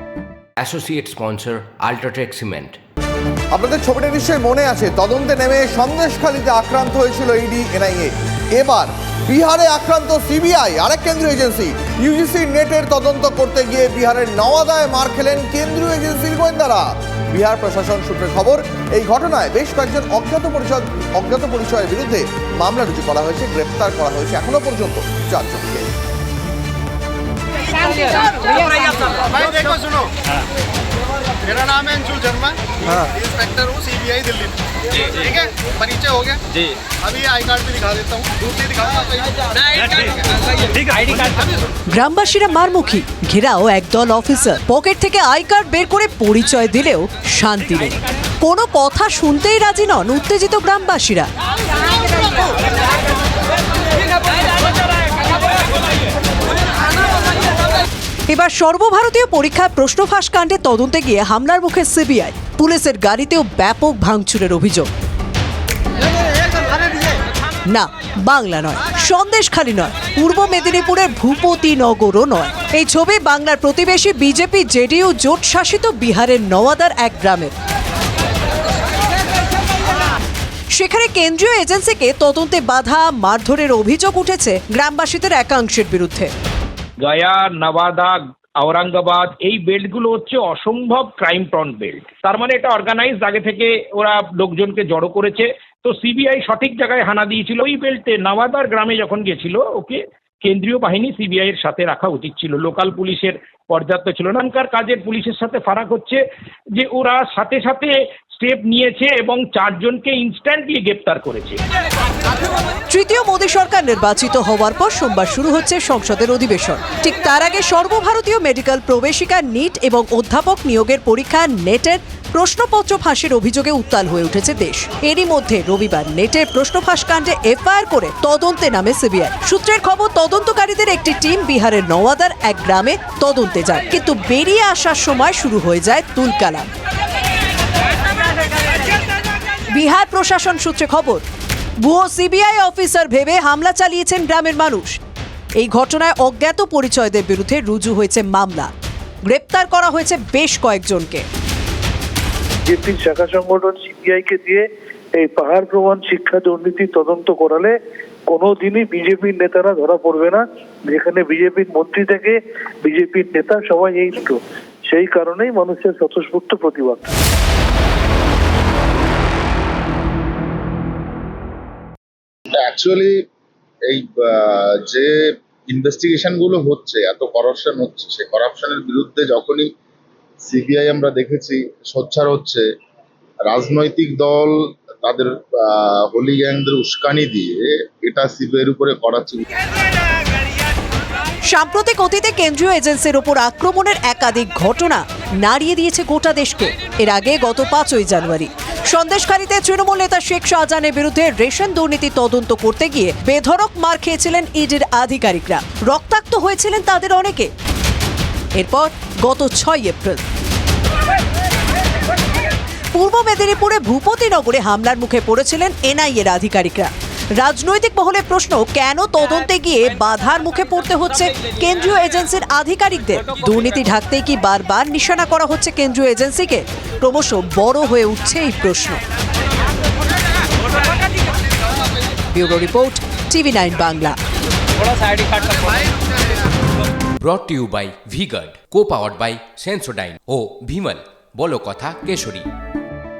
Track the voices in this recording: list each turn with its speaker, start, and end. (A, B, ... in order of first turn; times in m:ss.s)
0:00.6-0:02.8 A
0:03.5-0:25.9 B
0:27.9-0:30.1 C
0:31.5-0:32.5 C
0:33.4-0:34.5 C
0:35.1-0:36.4 C
0:37.1-0:39.2 C
0:39.9-0:40.1 C
0:41.9-0:51.3 D
0:58.3-1:04.9 D
1:07.7-1:17.5 D
1:20.7-1:26.3 D
1:27.0-1:46.2 E
1:46.8-1:51.6 E
1:52.9-2:16.7 D
2:19.7-2:21.2 D
2:21.8-2:25.0 D
2:25.6-2:28.7 D
2:29.2-2:31.3 D
2:32.7-2:37.8 F
2:38.3-2:47.1 F
2:52.5-2:53.2 G
2:53.9-2:55.1 G
2:55.7-2:59.7 G
3:00.4-3:02.6 G
3:03.4-3:09.5 G
3:11.5-3:27.5 D
3:28.5-3:30.2 D
3:32.9-3:49.0 D
3:52.3-3:54.2 D
3:57.2-4:02.5 A